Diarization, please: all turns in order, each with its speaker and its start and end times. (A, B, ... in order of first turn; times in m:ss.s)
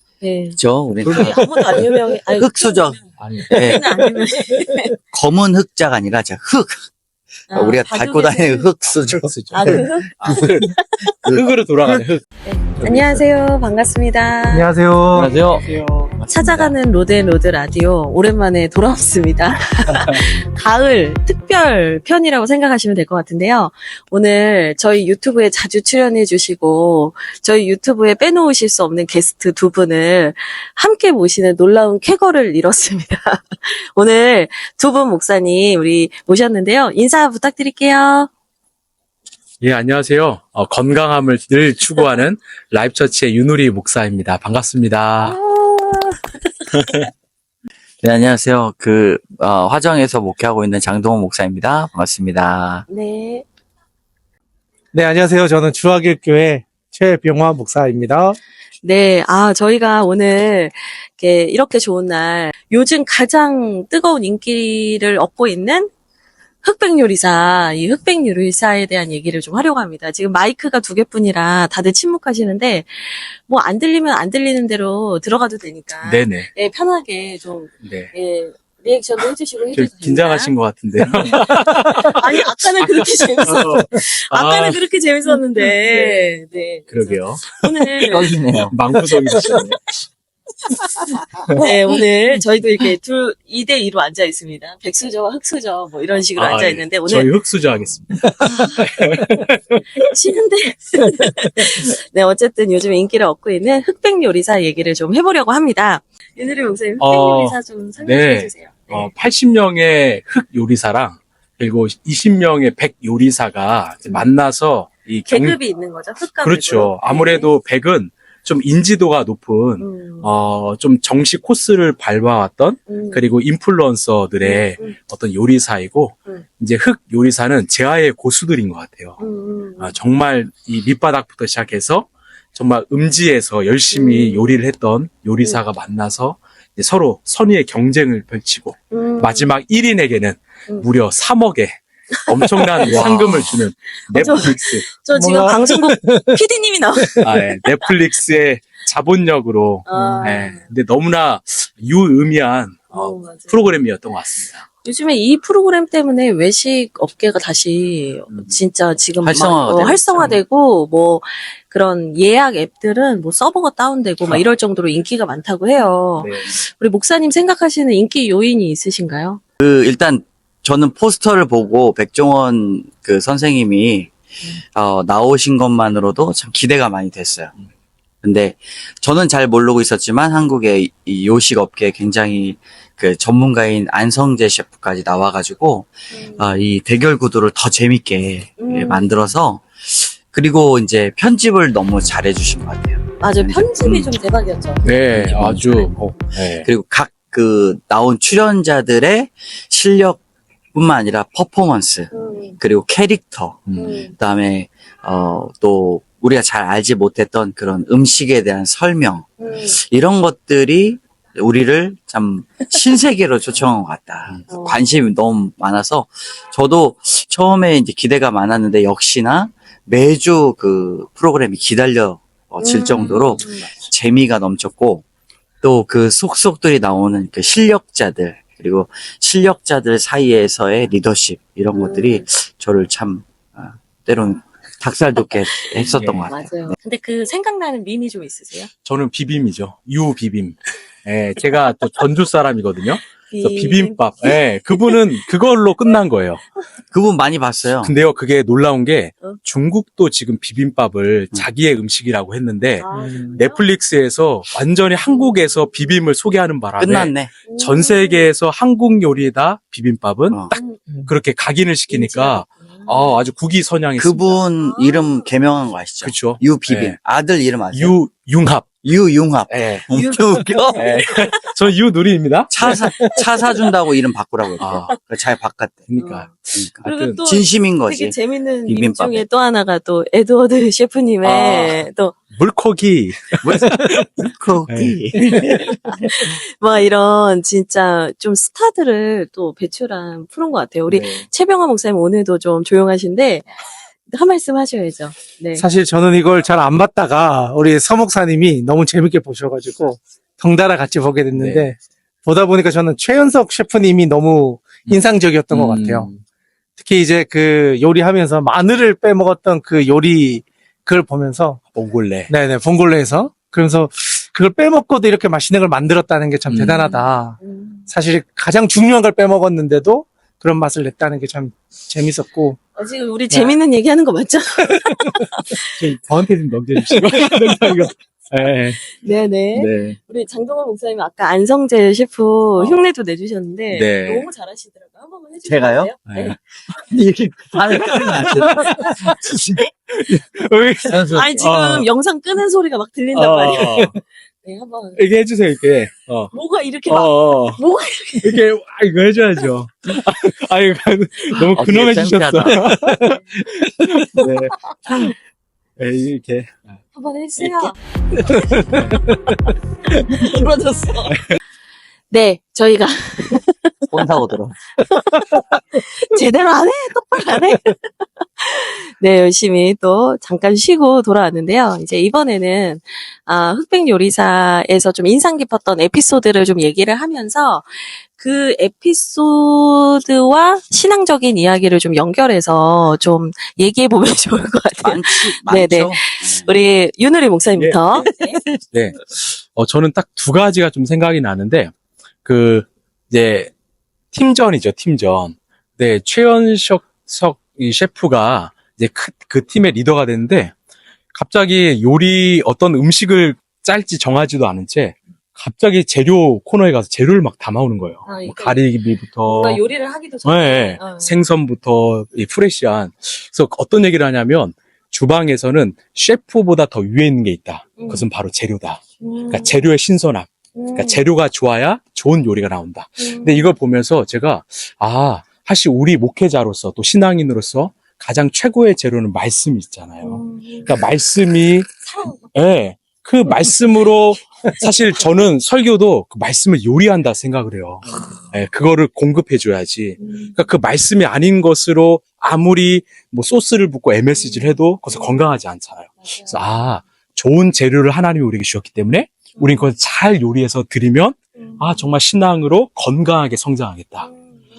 0:00.2-0:04.9 A
0:00.6-0:03.9 B
0:01.0-0:01.8 C
0:03.2-0:03.8 C
0:05.1-0:06.9 B
0:07.5-0:08.7 A
0:07.5-0:12.1 B
0:09.0-0:12.2 C
0:09.5-0:10.7 A
0:12.4-0:14.7 A
0:12.8-0:13.2 C
0:14.5-0:16.2 D
0:15.1-0:16.7 B
0:16.3-0:38.3 A
0:39.6-0:45.4 C
0:45.2-0:46.3 A
0:48.0-0:52.9 B
0:52.9-0:53.4 A
0:54.9-0:58.4 D
0:58.8-1:05.9 A
1:06.6-1:20.5 A
1:16.0-1:16.5 C
1:17.8-1:18.1 C
1:19.7-1:22.2 C
1:21.2-1:28.4 A
1:22.8-1:24.8 C
1:26.9-1:27.6 C
1:28.0-1:28.8 B
1:28.7-1:29.8 C
1:29.4-1:29.8 A
1:31.6-1:37.3 A
1:36.4-1:39.8 C
1:38.4-1:39.0 A
1:40.0-1:49.1 A
1:47.0-1:55.6 C
1:55.3-1:57.5 A
1:56.4-2:09.2 C
1:59.8-2:00.3 A
2:02.9-2:03.3 A
2:04.4-2:05.0 A
2:09.2-2:10.0 A
2:09.8-2:24.9 C
2:13.9-2:14.6 A
2:18.9-2:19.6 A
2:22.2-2:27.9 A
2:22.9-2:23.6 B
2:25.1-2:26.3 D
2:27.2-2:34.6 C
2:29.9-2:30.7 A
2:29.9-2:30.3 D
2:32.9-2:33.7 A
2:34.8-2:49.4 A
2:39.2-2:40.4 B
2:46.2-2:46.6 C
2:49.6-2:54.1 B
2:54.7-2:57.5 B
2:58.2-3:14.1 B
3:06.1-3:06.6 A
3:08.6-3:09.1 A
3:13.2-3:15.9 A
3:14.8-3:16.7 C
3:15.2-3:15.6 B
3:16.6-3:20.2 B
3:20.7-3:45.0 B
3:22.1-3:22.6 A
3:23.7-3:24.0 C
3:23.8-3:24.1 A
3:29.4-3:29.8 A
3:34.5-3:34.8 A
3:42.6-3:43.7 A
3:42.9-3:43.4 C
3:45.6-3:56.7 B
3:51.7-3:52.3 A
3:55.5-3:58.7 A
3:55.8-3:56.3 C
3:58.8-4:06.4 C
4:03.3-4:05.1 A
4:06.9-4:07.9 B
4:07.8-4:24.4 C
4:12.8-4:13.6 A
4:15.0-4:15.4 A
4:16.8-4:17.3 B
4:17.5-4:18.3 A
4:20.3-4:20.5 B
4:20.5-4:20.8 A
4:21.9-4:23.2 A
4:24.0-4:28.0 B
4:24.6-4:25.3 A
4:26.0-4:27.0 C
4:27.7-4:28.7 C
4:28.8-4:31.1 B
4:29.5-4:29.9 C
4:29.9-4:31.5 A
4:30.8-4:33.2 C
4:32.5-4:35.9 B
4:34.6-4:35.0 C
4:35.9-4:37.2 C
4:36.0-4:36.3 A
4:36.8-4:42.2 A
4:37.2-4:38.2 B
4:38.7-4:39.2 B
4:41.2-4:41.8 B
4:41.4-4:41.7 C
4:42.4-4:45.8 C
4:43.4-4:46.0 B
4:45.8-4:53.5 A
4:50.9-4:51.3 C
4:54.0-4:55.6 A
4:55.6-5:06.1 D
5:01.4-5:01.7 C
5:04.9-5:06.2 C
5:06.8-5:11.6 D
5:11.8-5:12.3 C
5:12.3-5:17.4 D
5:16.5-5:16.9 C
5:16.8-5:17.9 A
5:17.9-5:22.6 D
5:22.8-5:25.9 A
5:25.6-5:28.9 C
5:27.0-5:27.3 D
5:27.3-5:27.6 A
5:28.8-5:36.4 A
5:29.6-5:30.0 C
5:33.7-5:34.3 C
5:35.5-5:35.9 B
5:36.1-5:36.4 C
5:36.7-5:39.7 B
5:37.7-5:39.2 A
5:37.9-5:39.3 C
5:39.9-5:41.9 C
5:40.8-5:41.5 B
5:41.2-5:45.0 A
5:43.1-5:44.0 C
5:45.0-5:46.3 C
5:46.3-5:48.4 A
5:46.9-5:47.6 C
5:48.2-5:55.1 C
5:51.4-5:52.6 B
5:54.7-5:55.1 A
5:55.8-5:56.8 C
5:56.9-5:59.0 A
5:58.4-5:59.2 C
5:59.9-6:01.2 A
6:01.1-6:01.4 C
6:02.1-6:03.8 A
6:03.9-6:04.6 B
6:04.9-6:28.4 A
6:24.8-6:26.5 B
6:27.6-6:31.7 C
6:32.2-6:33.5 C
6:34.1-6:40.5 C
6:41.1-6:49.6 C
6:48.1-6:48.7 A
6:49.2-6:51.2 A
6:50.2-7:11.7 C
6:57.8-6:58.0 A
6:59.0-6:59.7 A
7:00.6-7:01.0 A
7:03.0-7:03.5 A
7:10.0-7:10.8 A
7:11.8-7:12.2 A
7:12.3-7:34.1 C
7:20.0-7:20.4 A
7:24.2-7:25.2 A
7:26.0-7:26.4 A
7:29.4-7:29.7 A
7:31.4-7:31.9 A
7:34.0-7:34.4 A